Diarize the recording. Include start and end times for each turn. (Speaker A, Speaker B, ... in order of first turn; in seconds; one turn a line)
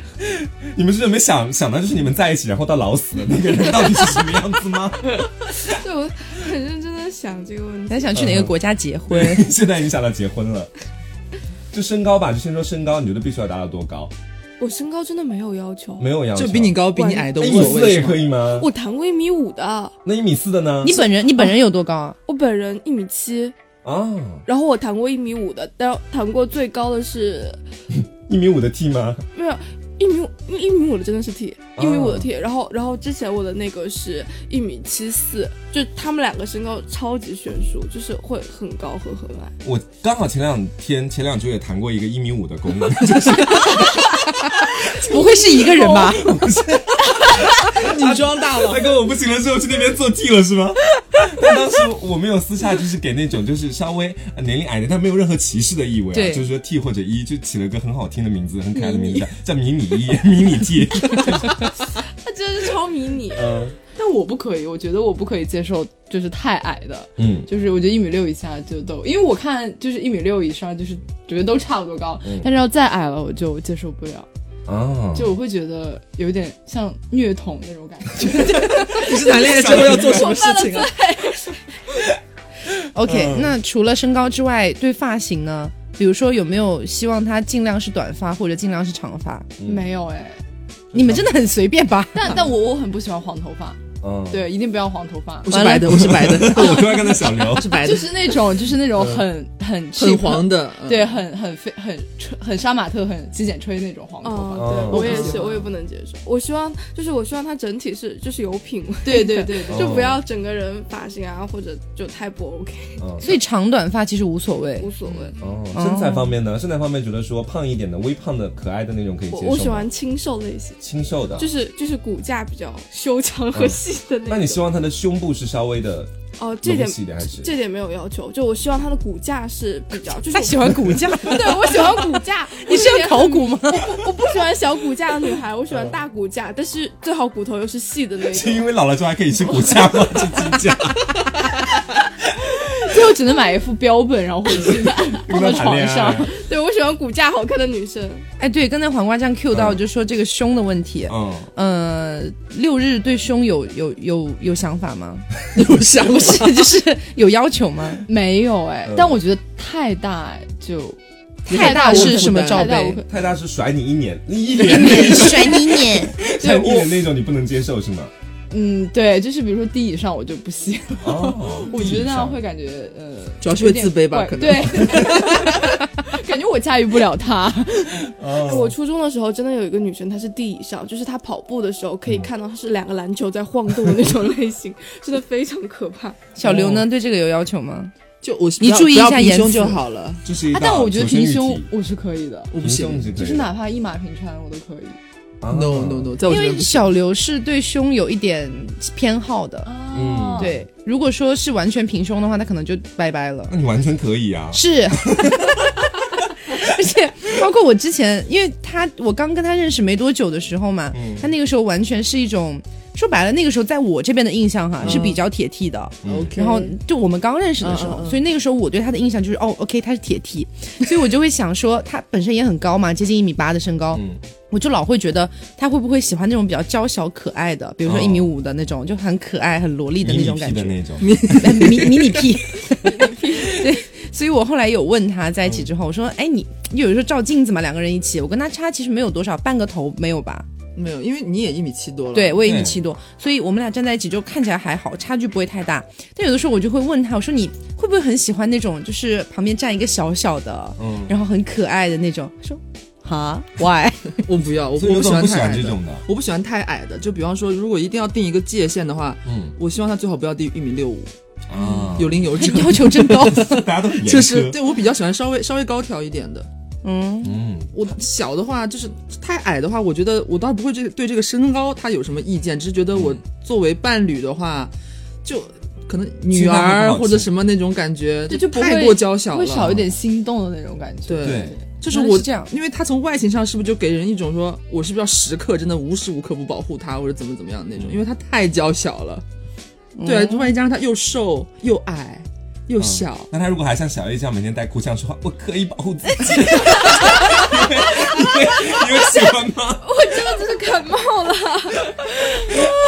Speaker A: 0.2-5.3
Speaker B: 5.6-8.2
Speaker C: 7.9-9.5
Speaker A: 8.1-8.5
Speaker A: 9.1-10.7
Speaker A: 11.7-14.1
Speaker B: 14.6-16.1
Speaker A: 16.0-18.7
Speaker D: 16.3-18.2
Speaker B: 16.9-19.9
Speaker A: 20.0-21.0
Speaker C: 20.8-22.1
Speaker B: 22.3-23.5
Speaker A: 23.8-24.4
Speaker B: 24.4-27.6
Speaker A: 27.9-29.2
Speaker B: 29.3-39.5
Speaker A: 31.8-32.3
Speaker A: 39.6-61.7
Speaker C: 44.8-46.3
Speaker D: 47.7-48.9
Speaker C: 56.1-56.4
Speaker B: 61.8-63.6
Speaker A: 63.3-63.7
Speaker E: 63.9-74.3
Speaker A: 67.2-67.5
Speaker A: 72.2-72.5
Speaker A: 74.7-75.3
Speaker E: 75.1-79.3
Speaker D: 78.4-80.9
Speaker A: 79.3-80.4
Speaker B: 79.5-81.6
Speaker C: 82.9-89.5
Speaker A: 83.0-83.5
Speaker A: 89.6-89.9
Speaker E: 89.6-90.4
Speaker A: 90.9-91.3
Speaker C: 90.9-92.4
Speaker E: 92.1-95.6
Speaker A: 94.0-94.5
Speaker D: 95.5-98.3
Speaker C: 95.5-96.4
Speaker A: 95.9-97.8
Speaker E: 97.8-105.7
Speaker A: 98.9-99.2
Speaker D: 99.9-101.2
Speaker B: 104.2-113.0
Speaker A: 104.5-105.3
Speaker D: 104.9-105.4
Speaker E: 109.0-110.0
Speaker A: 109.7-110.2
Speaker A: 113.0-113.3
Speaker C: 113.2-114.9
Speaker B: 114.8-115.3
Speaker A: 115.4-119.9
Speaker C: 115.7-116.3
Speaker B: 119.3-120.8
Speaker A: 120.8-121.5
Speaker B: 121.3-124.6
Speaker A: 123.5-126.1
Speaker B: 126.4-138.7
Speaker A: 126.6-127.5
Speaker C: 130.3-132.0
Speaker A: 130.7-131.1
Speaker C: 132.5-133.9
Speaker A: 135.7-136.0
Speaker A: 138.3-141.5
Speaker E: 142.6-146.3
Speaker A: 145.1-146.3
Speaker B: 146.2-148.2
Speaker C: 148.4-155.3
Speaker A: 149.5-149.8
Speaker A: 151.1-151.5
Speaker D: 155.5-156.7
Speaker C: 156.1-158.0
Speaker E: 158.1-163.1
Speaker A: 158.8-159.2
Speaker D: 161.5-162.8
Speaker C: 161.5-163.0
Speaker A: 163.1-168.1
Speaker C: 164.6-166.1
Speaker E: 166.4-166.9
Speaker E: 168.5-178.1
Speaker A: 171.0-172.4
Speaker D: 173.4-175.6
Speaker A: 174.8-175.2
Speaker A: 178.1-178.7
Speaker B: 178.4-186.2
Speaker C: 186.3-187.9
Speaker A: 186.4-186.8
Speaker D: 188.2-190.2
Speaker C: 188.6-189.8
Speaker A: 190.2-191.7
Speaker E: 190.5-192.5
Speaker D: 192.5-193.1
Speaker A: 192.6-193.5
Speaker E: 193.1-195.0
Speaker A: 195.4-196.1
Speaker D: 195.5-196.9
Speaker C: 196.2-199.7
Speaker E: 199.6-200.6
Speaker A: 199.9-200.6
Speaker C: 200.3-203.5
Speaker A: 203.5-205.5
Speaker C: 204.5-205.6
Speaker C: 206.4-240.4
Speaker A: 210.9-211.3
Speaker A: 214.8-215.1
Speaker D: 214.8-215.2
Speaker A: 216.0-216.3
Speaker D: 216.0-216.8
Speaker D: 217.6-218.2
Speaker A: 223.9-224.2
Speaker A: 227.8-228.3
Speaker A: 230.0-231.8
Speaker D: 231.0-232.3
Speaker E: 233.1-233.5
Speaker D: 240.7-242.6
Speaker C: 242.1-254.1
Speaker A: 242.4-242.8
Speaker A: 250.8-251.1
Speaker D: 254.1-261.1
Speaker A: 254.8-256.0
Speaker A: 259.2-259.5
Speaker A: 261.5-262.4
Speaker C: 261.6-263.6
Speaker D: 261.9-266.5
Speaker A: 263.2-264.6
Speaker C: 266.8-267.4
Speaker A: 267.2-267.7
Speaker D: 267.7-274.7
Speaker A: 272.9-273.2
Speaker D: 275.2-279.8
Speaker A: 276.3-277.3
Speaker E: 278.3-281.6
Speaker A: 279.6-279.9
Speaker D: 281.1-289.2
Speaker A: 281.2-281.6
Speaker C: 281.9-282.5
Speaker A: 287.8-288.0
Speaker C: 290.0-290.5
Speaker D: 290.0-293.3
Speaker A: 292.8-299.9
Speaker B: 299.8-302.7